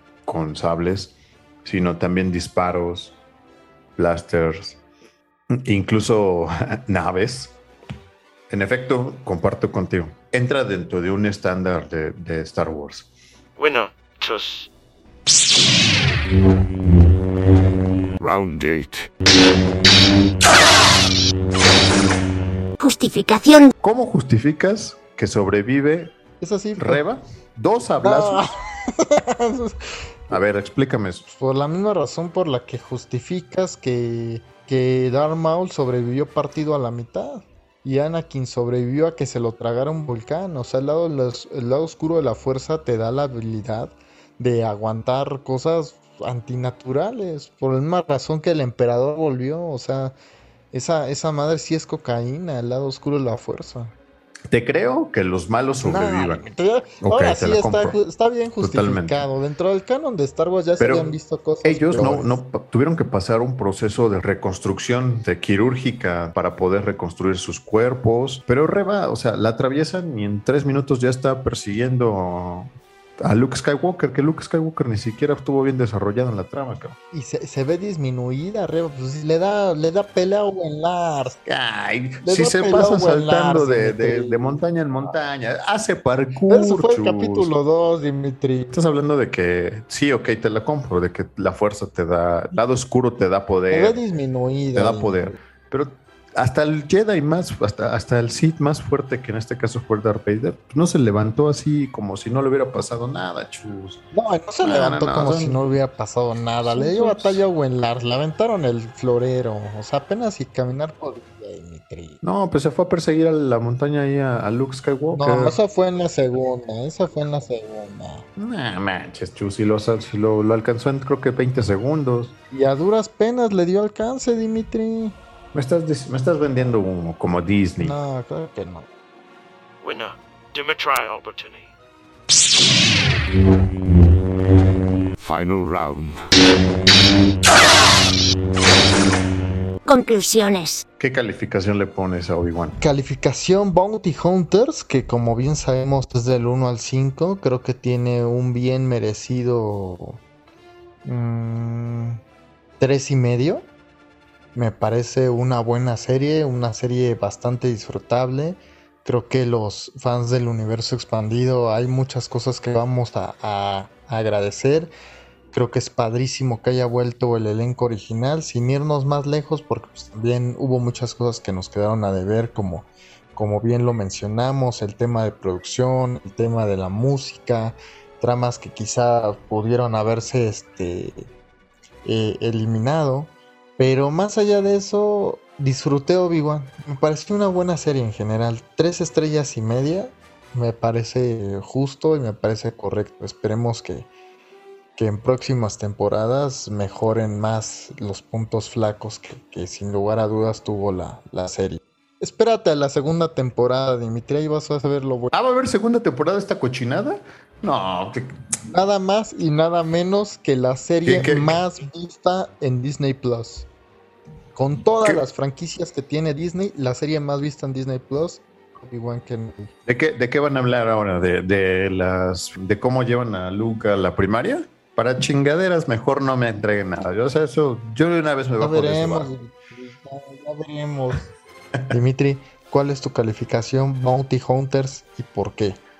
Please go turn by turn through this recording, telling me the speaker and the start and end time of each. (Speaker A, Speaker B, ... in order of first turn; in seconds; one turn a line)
Speaker A: 0.2-3.1
Speaker A: 4.0-4.8
Speaker A: 5.5-7.5
Speaker A: 8.5-13.1
Speaker B: 13.6-14.7
Speaker C: 18.2-19.1
Speaker D: 22.8-23.7
Speaker A: 23.8-26.1
Speaker E: 26.4-27.0
Speaker A: 26.8-28.5
Speaker E: 28.0-29.8
Speaker A: 30.3-31.2
Speaker E: 31.3-50.1
Speaker E: 50.7-53.9
Speaker A: 54.5-56.5
Speaker E: 55.8-62.4
Speaker A: 57.0-58.0
Speaker A: 58.6-59.3
Speaker A: 60.8-61.1
Speaker A: 61.6-77.0
Speaker E: 77.1-81.4
Speaker A: 81.4-87.5
Speaker E: 82.2-84.6
Speaker E: 86.5-88.8
Speaker A: 88.7-94.0
Speaker E: 93.7-95.4
Speaker A: 94.7-104.0
Speaker E: 104.1-112.2
Speaker A: 104.6-105.6
Speaker A: 106.7-107.4
Speaker A: 112.2-115.6
Speaker E: 115.1-118.2
Speaker A: 118.3-122.3
Speaker E: 122.5-125.2
Speaker A: 125.5-128.0
Speaker E: 127.8-128.9
Speaker B: 129.8-131.7
Speaker C: 135.2-136.2
Speaker D: 139.8-140.8
Speaker A: 141.0-142.8
Speaker E: 142.8-150.2
Speaker E: 151.0-152.2
Speaker E: 152.8-153.7
Speaker E: 154.5-164.9
Speaker E: 165.5-181.2
Speaker E: 182.0-194.1
Speaker E: 195.0-205.3
Speaker A: 205.3-208.3
Speaker E: 208.7-213.7
Speaker A: 211.0-211.6
Speaker E: 214.5-219.7
Speaker A: 219.8-229.3
Speaker E: 228.6-231.3
Speaker E: 231.9-235.8